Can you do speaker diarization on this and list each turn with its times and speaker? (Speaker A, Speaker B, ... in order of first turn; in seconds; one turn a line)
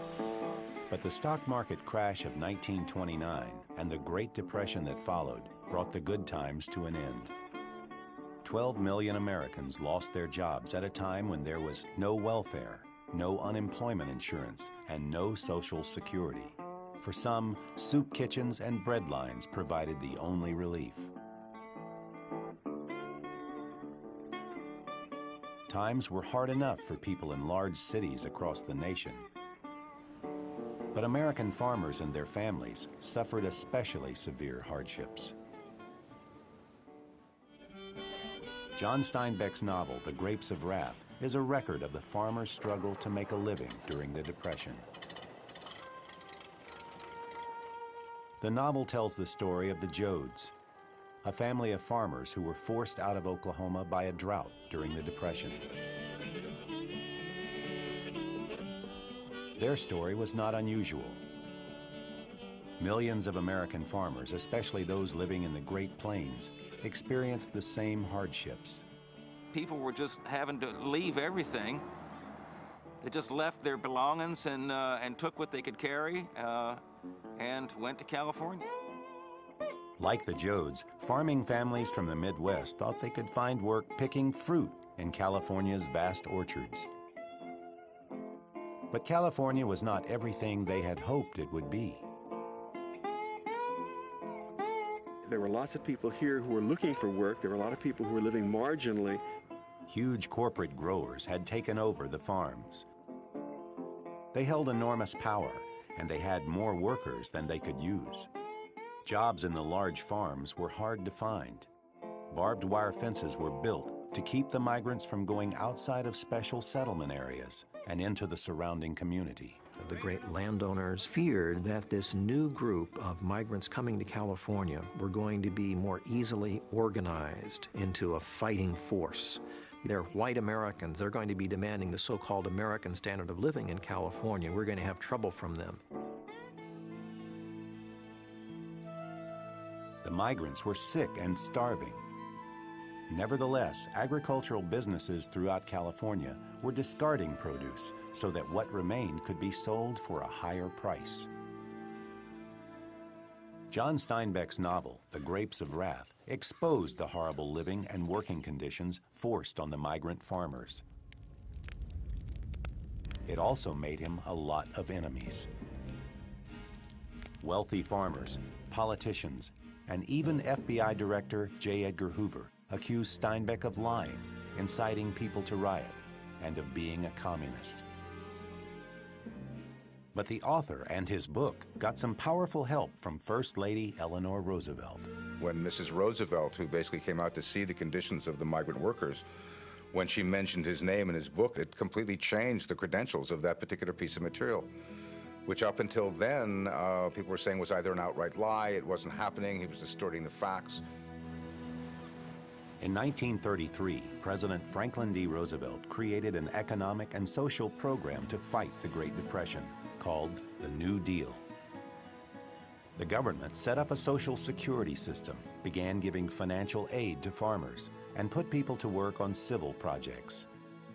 Speaker A: 0.9-7.3
Speaker A: 8.4-21.1
Speaker A: 25.7-29.3
Speaker A: 30.9-35.3
Speaker A: 38.7-44.9
Speaker A: 48.4-50.5
Speaker A: 51.2-55.7
Speaker A: 59.6-61.2
Speaker A: 62.8-68.8
Speaker B: 69.5-71.8
Speaker B: 73.0-76.8
Speaker B: 77.4-78.6
Speaker A: 80.0-86.9
Speaker A: 88.9-92.0
Speaker C: 95.2-99.2
Speaker A: 99.9-102.8
Speaker A: 104.3-108.3
Speaker A: 109.0-111.7
Speaker A: 112.3-119.6
Speaker D: 119.8-135.8
Speaker A: 140.0-142.0
Speaker A: 143.1-151.3
Speaker A: 153.7-160.8
Speaker A: 163.2-165.5
Speaker A: 167.4-177.8
Speaker A: 180.1-185.1
Speaker E: 185.4-189.2
Speaker E: 189.9-194.7
Speaker E: 195.4-200.8
Speaker A: 202.8-211.4
Speaker A: 213.0-220.5